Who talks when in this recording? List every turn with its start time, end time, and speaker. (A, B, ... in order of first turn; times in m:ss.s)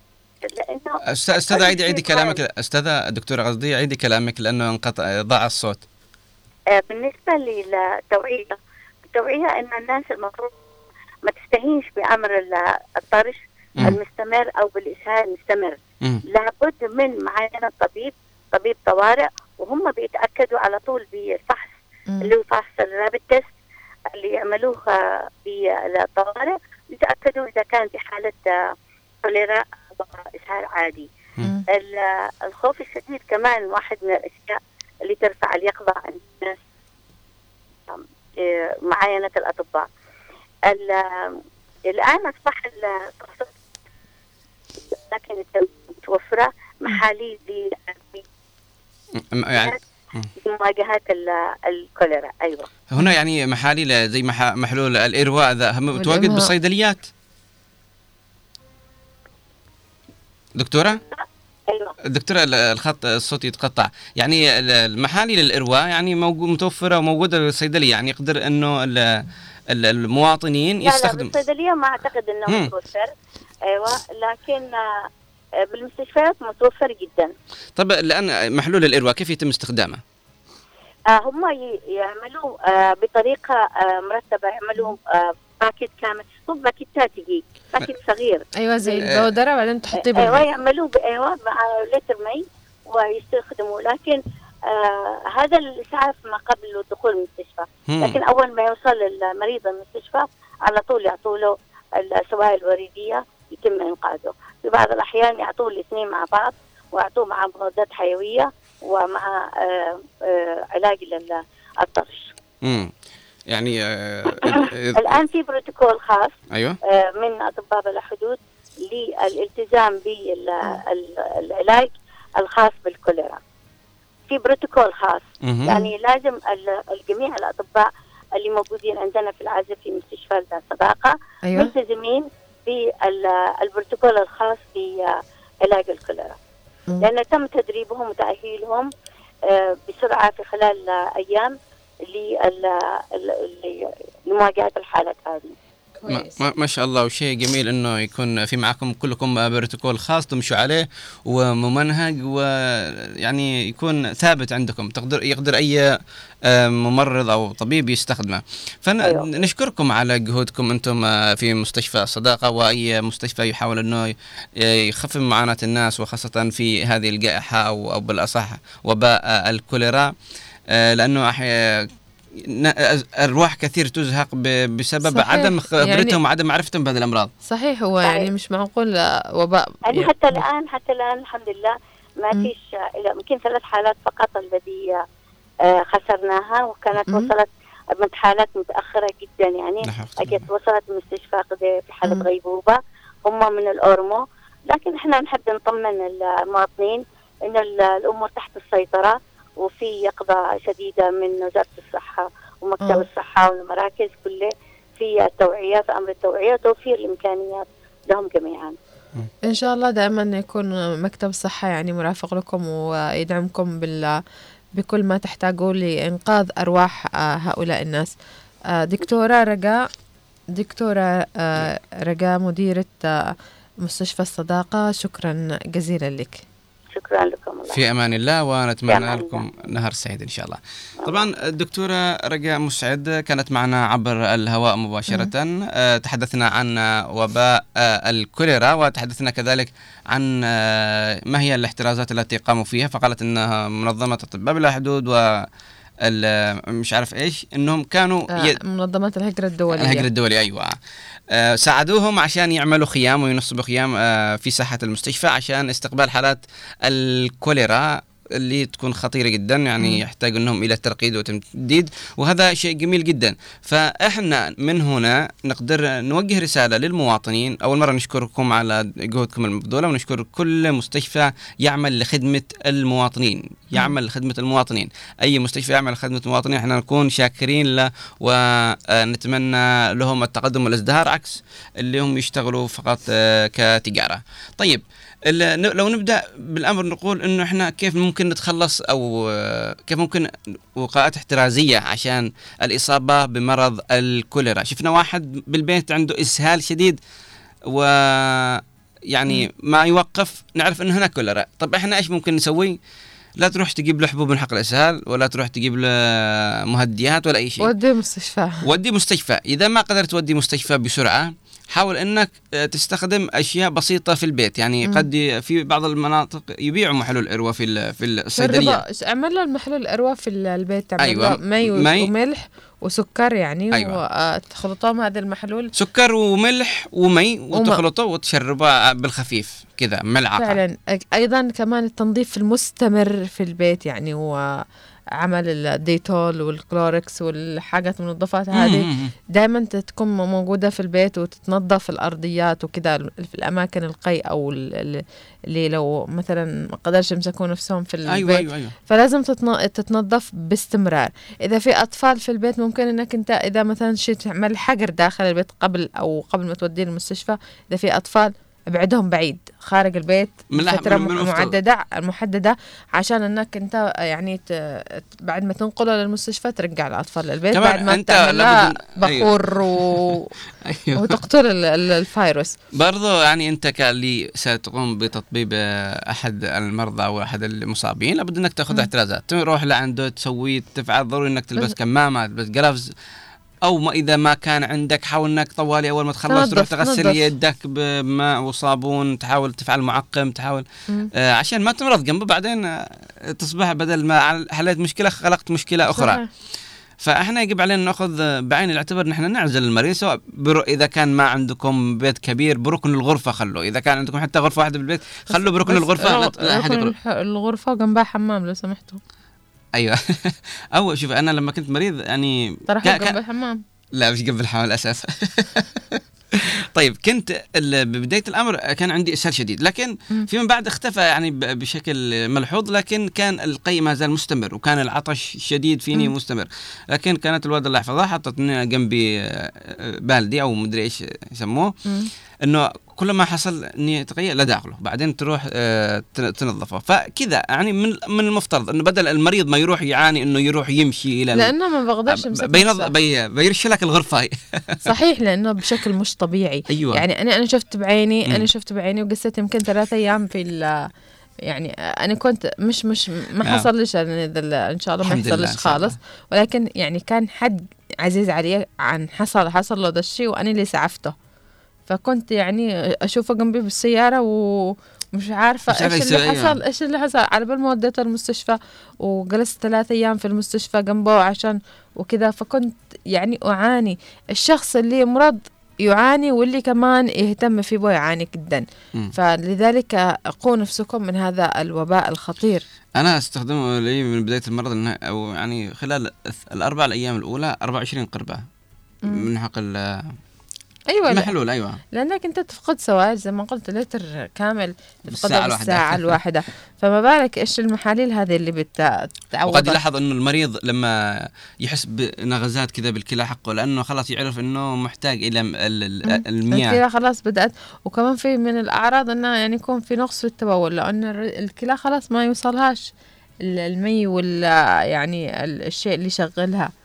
0:00.4-0:02.4 A
0:01.1-0:05.8 B
0:06.7-0:08.6 A
0:09.1-0:10.5 A
0:11.2-0:23.5 A
0:24.1-0:28.5 A
0:29.2-0:31.1 A
0:31.7-0:36.6 A
0:37.9-0:39.9 A
0:40.7-0:41.3 A
0:41.9-0:43.5 A
0:44.9-0:48.2 A
0:49.2-0:50.3 B
0:49.5-0:49.8 A
0:50.4-0:52.7 A
0:52.9-0:57.1 B
0:56.0-0:56.5 C
1:00.6-1:01.0 B
1:01.1-1:01.9 A
1:02.1-1:11.3 B
1:10.8-1:13.1 A
1:13.7-1:14.8 A
1:15.7-1:17.3 A
1:17.8-1:20.0 B
1:21.1-1:29.0 A
1:28.6-1:30.4 C
1:30.0-1:52.3 A
1:37.9-1:38.2 B
1:52.6-1:52.9 B
1:53.5-1:55.2 B
1:54.4-2:03.4 A
1:56.5-1:56.8 B
2:04.3-2:16.4 A
2:05.4-2:05.7 B
2:17.0-2:18.9 A
2:19.4-2:21.5 A
2:22.1-2:25.5 A
2:26.0-2:26.4 C
2:26.1-2:35.8 B
2:36.4-2:50.1 B
2:50.7-2:57.3 B
2:55.1-2:56.2 C
2:57.5-3:00.4 C
2:59.9-3:05.0 A
3:05.7-3:28.8 A
3:09.8-3:10.5 B
3:29.4-3:34.1 C
3:34.8-3:38.1 C
3:38.7-3:39.8 C
3:40.5-3:43.1 C
3:43.8-3:46.4 C
3:46.9-3:47.8 A
3:47.7-4:05.4 B
3:48.9-3:49.5 A
3:51.0-3:51.3 A
4:06.0-4:08.6 B
4:08.3-4:10.1 C
4:09.7-4:10.7 B
4:11.3-4:57.0 B
4:57.7-5:02.8 B
5:03.4-5:07.7 B
5:07.6-5:08.6 C
5:08.6-5:18.8 B
5:18.3-5:25.7 C
5:21.0-5:22.1 B
5:23.7-5:24.0 B
5:25.8-5:30.6 B
5:27.5-5:27.8 C
5:30.4-5:34.3 C
5:35.2-6:10.3 C
5:38.5-5:39.1 B
5:48.1-5:48.7 B
6:00.5-6:01.6 B
6:07.5-6:10.0 B
6:10.6-6:11.2 B
6:10.9-6:12.6 C
6:12.7-6:22.9 B
6:23.6-6:36.2 B
6:26.3-6:27.2 C
6:35.9-6:36.3 C
6:37.0-6:46.9 B
6:45.3-6:49.0 C
6:49.8-6:53.2 B
6:52.7-6:53.6 C
6:54.0-7:11.7 B
7:12.4-7:21.5 B
7:21.4-7:22.9 C
7:22.1-7:24.9 B
7:24.8-7:30.7 C
7:26.7-7:27.0 B
7:31.5-7:41.1 C
7:33.4-7:33.7 B
7:35.0-7:36.0 B
7:41.9-8:02.6 C
7:45.7-7:46.6 B
8:03.0-8:08.4 B
8:09.1-8:10.1 B
8:10.9-8:11.3 C
8:11.1-8:11.8 B
8:11.9-8:19.8 C
8:15.1-8:16.2 B
8:19.5-8:26.8 B
8:26.1-8:32.9 C
8:33.4-8:36.7 C